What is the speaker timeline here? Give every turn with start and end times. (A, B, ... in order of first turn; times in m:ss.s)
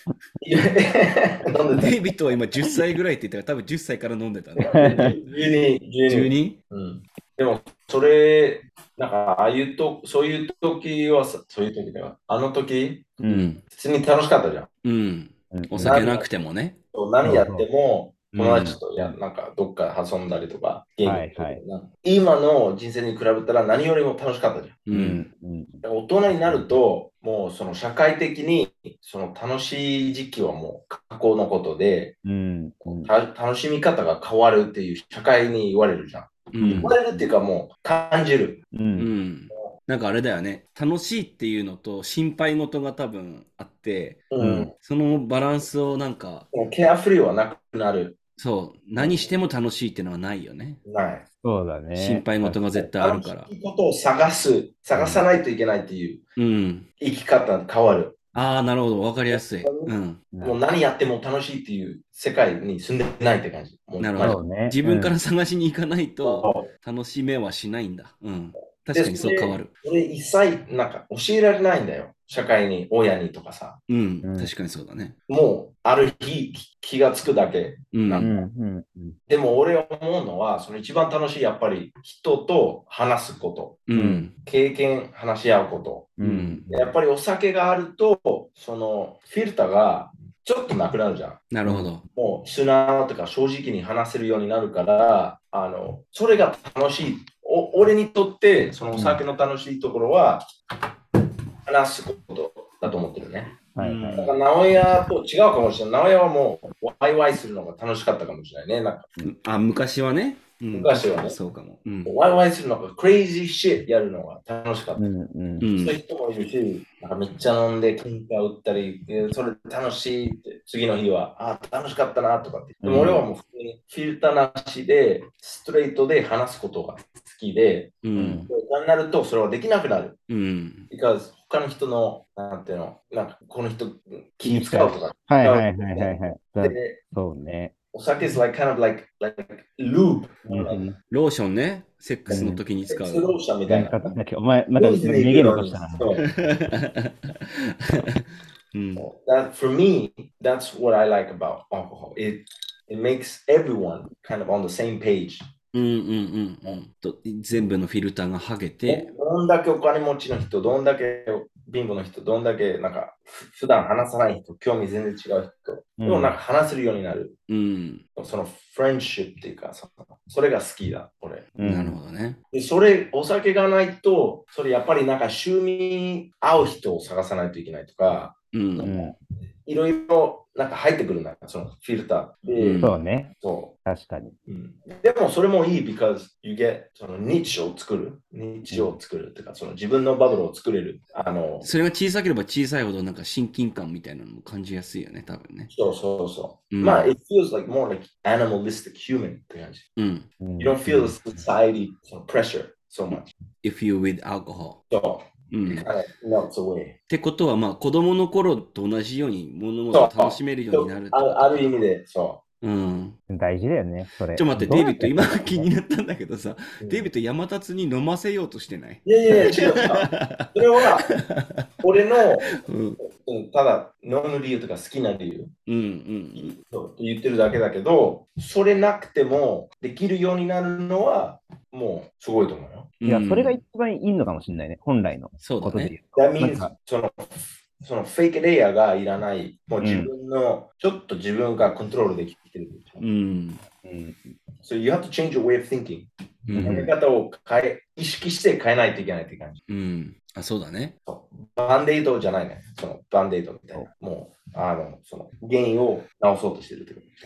0:00.4-0:02.0 A
0:01.8-0:05.1 B
0:04.6-0:13.1 A
0:04.7-0:05.2 C
0:06.1-0:06.6 B
0:13.2-0:13.5 C
0:13.3-0:13.6 B
0:13.7-0:14.7 A
0:14.8-0:16.8 B
0:15.5-0:16.0 C
0:15.8-0:16.3 A
0:16.9-0:24.8 A
0:17.2-0:17.7 C
0:18.3-0:19.2 C
0:21.0-0:21.6 C
0:24.9-0:25.2 B
0:24.9-0:25.8 C
0:25.8-0:32.2 A
0:32.2-0:33.1 C
0:32.8-0:38.6 A
0:36.5-0:37.0 B
0:36.6-0:37.2 C
0:38.7-0:39.1 C
0:39.0-0:46.5 B
0:44.3-0:44.7 A
0:44.4-0:44.7 C
0:46.5-0:48.2 A
0:48.4-0:50.8 B
0:49.0-0:49.4 A
0:50.8-0:51.3 A
0:51.4-0:52.6 C
0:52.0-0:53.5 B
0:52.8-0:56.2 A
0:55.0-0:55.2 C
0:56.4-0:56.9 B
0:57.0-0:58.2 A
0:58.3-1:00.2 B
0:59.3-1:04.4 A
1:00.3-1:00.6 C
1:04.0-1:09.7 B
1:04.2-1:05.1 C
1:06.2-1:06.7 A
1:08.9-1:13.8 A
1:13.9-1:15.2 B
1:14.2-1:14.5 C
1:15.3-1:18.3 A
1:17.9-1:18.3 B
1:18.2-1:19.2 C
1:19.3-1:23.8 A
1:23.9-1:24.3 B
1:23.9-1:24.3 C
1:24.4-1:26.1 A
1:26.2-1:26.9 C
1:26.2-1:26.6 B
1:26.7-1:31.5 A
1:31.5-1:32.0 B
1:31.6-1:31.9 C
1:32.1-1:40.4 A
1:39.0-1:39.2 C
1:41.7-1:43.6 A
1:43.8-1:44.3 C
1:43.8-1:44.4 B
1:44.2-1:49.1 A
1:49.2-1:52.2 B
1:50.7-1:51.4 A
1:52.1-1:55.1 A
1:55.0-1:55.7 C
1:55.6-1:56.0 B
1:55.8-2:10.2 A
2:02.8-2:03.2 C
2:08.0-2:08.5 B
2:08.2-2:08.5 C
2:10.3-2:10.9 B
2:10.9-2:17.0 A
2:14.4-2:17.7 C
2:17.9-2:20.8 A
2:20.5-2:21.0 C
2:21.1-2:23.3 B
2:22.3-2:22.6 C
2:22.9-2:24.1 A
2:23.7-2:26.0 C
2:24.8-2:26.3 A
2:26.2-2:29.1 B
2:29.0-2:35.4 A
2:35.7-2:39.1 B
2:38.9-2:47.4 A
2:46.0-2:46.4 C
2:47.5-2:48.0 B
2:48.2-2:51.5 A
2:51.6-2:52.0 C
2:51.6-2:52.4 B
2:52.5-2:59.1 A
2:58.5-2:58.9 B
2:58.8-2:59.2 C
2:59.6-3:02.9 A
3:02.6-3:03.0 B
3:02.8-3:03.3 C
3:03.4-3:03.7 A
3:03.8-3:04.4 C
3:04.5-3:11.7 A
3:08.7-3:09.0 C
3:11.6-3:15.7 B
3:15.7-3:19.8 A
3:16.7-3:17.1 B
3:20.0-3:20.3 B
3:20.4-3:21.2 C
3:20.6-3:23.3 A
3:23.6-3:24.8 B
3:24.9-3:27.0 A
3:25.5-3:25.9 B
3:27.1-3:31.5 B
3:29.9-3:32.4 A
3:32.6-3:33.2 B
3:33.3-3:35.7 C
3:34.4-3:41.7 B
3:36.8-3:37.1 A
3:39.0-3:41.1 A
3:41.8-3:42.5 A
3:42.5-3:43.0 B
3:43.1-3:45.5 A
3:45.7-3:46.6 B
3:46.4-3:52.9 A
3:53.0-3:53.6 B
3:53.0-3:56.7 C
3:55.4-3:56.0 B
3:56.2-3:57.2 A
3:57.8-4:03.0 A
3:59.8-4:00.1 C
4:03.0-4:03.6 B
4:03.8-4:04.4 C
4:04.6-4:09.6 A
4:06.5-4:06.9 B
4:06.6-4:06.9 C
4:09.7-4:11.0 B
4:11.1-4:17.1 A